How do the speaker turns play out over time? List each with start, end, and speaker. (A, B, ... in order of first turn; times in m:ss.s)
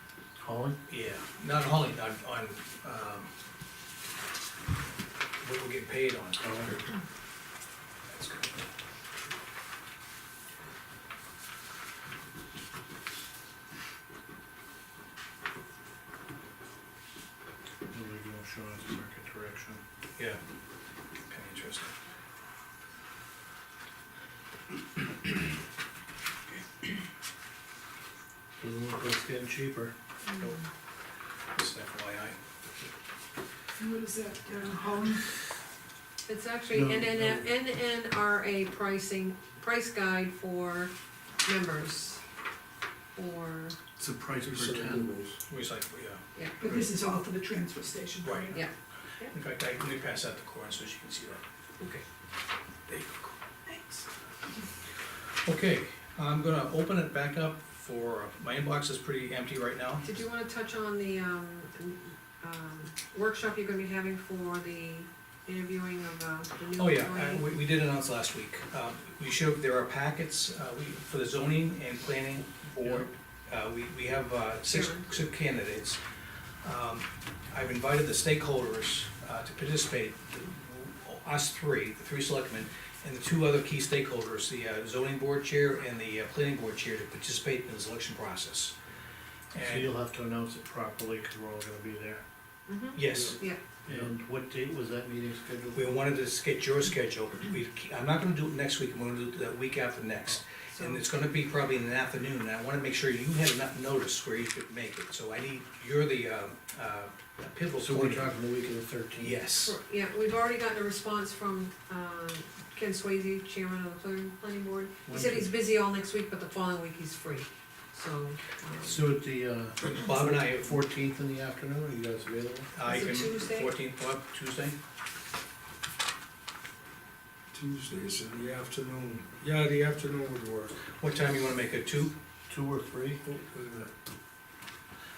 0:00.4-0:00.8 A
0:00.9-0:03.3 B
0:05.4-0:06.5 B
0:06.4-0:06.8 A
0:08.1-0:08.5 B
0:17.9-0:19.8 A
0:21.3-0:21.9 B
0:28.6-0:29.9 A
0:31.5-0:32.4 B
0:33.8-0:35.3 C
0:36.2-0:40.9 D
0:36.7-0:37.5 A
0:41.4-0:42.2 D
0:43.1-0:43.8 D
0:44.0-0:45.1 A
0:44.4-0:45.4 E
0:45.5-0:46.9 B
0:46.6-0:48.5 C
0:48.2-0:48.6 B
0:48.5-0:49.3 D
0:49.3-0:51.4 B
0:52.9-0:54.0 B
0:55.4-1:00.0 B
1:00.0-1:07.4 D
1:06.7-1:16.0 B
1:14.7-1:15.1 D
1:16.6-1:28.7 B
1:29.5-1:29.9 B
1:29.6-1:32.2 A
1:32.7-1:33.6 D
1:32.9-1:34.1 B
1:33.1-1:33.4 E
1:33.8-1:35.9 A
1:35.7-1:48.3 B
1:40.7-1:41.0 D
1:47.8-1:49.4 A
1:49.2-1:49.8 B
1:49.6-1:59.1 D
1:55.1-1:55.5 A
1:58.8-2:02.7 A
1:59.8-2:00.8 B
2:02.7-2:04.7 B
2:02.8-2:03.7 D
2:07.5-2:10.8 E
2:11.0-2:12.1 B
2:12.5-2:13.2 A
2:13.2-2:13.9 E